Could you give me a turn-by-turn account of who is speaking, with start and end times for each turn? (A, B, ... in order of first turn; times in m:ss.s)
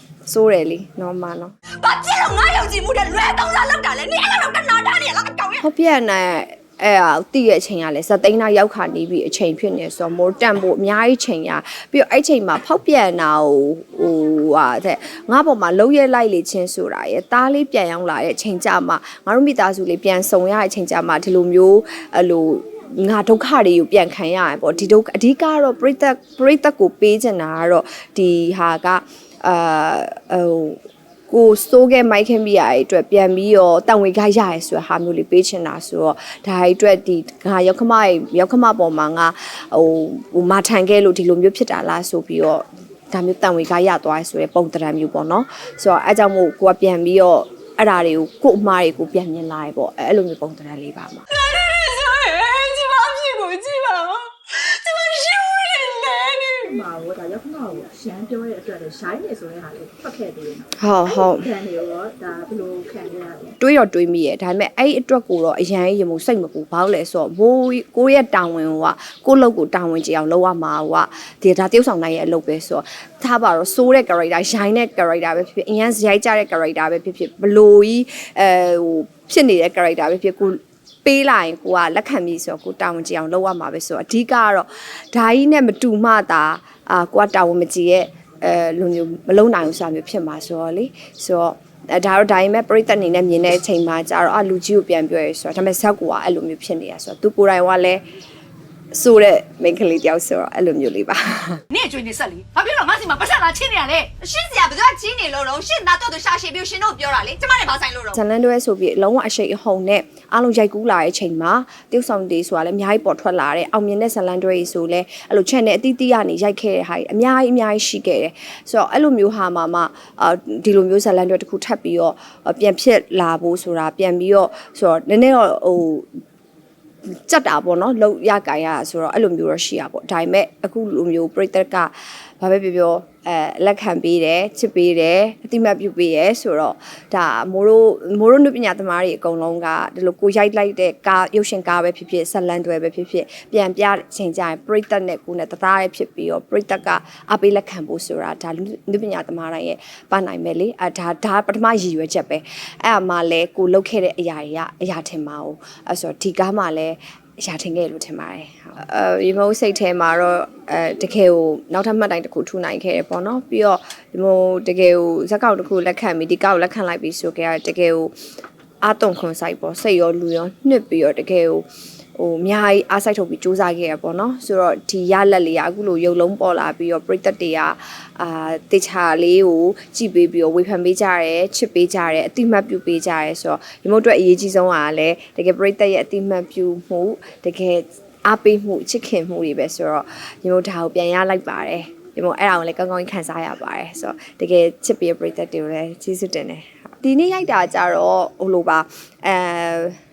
0:00.3-0:01.5 A
0:01.7-0:05.6 B
0:05.6-0:51.3 A
0:51.3-0:56.7 B
0:56.6-1:03.6 C
1:00.8-1:01.5 A
1:03.6-1:38.0 A
1:38.9-1:41.6 A
1:41.7-1:48.2 B
1:48.1-2:06.1 A
2:07.0-2:48.1 A
2:48.8-3:20.0 A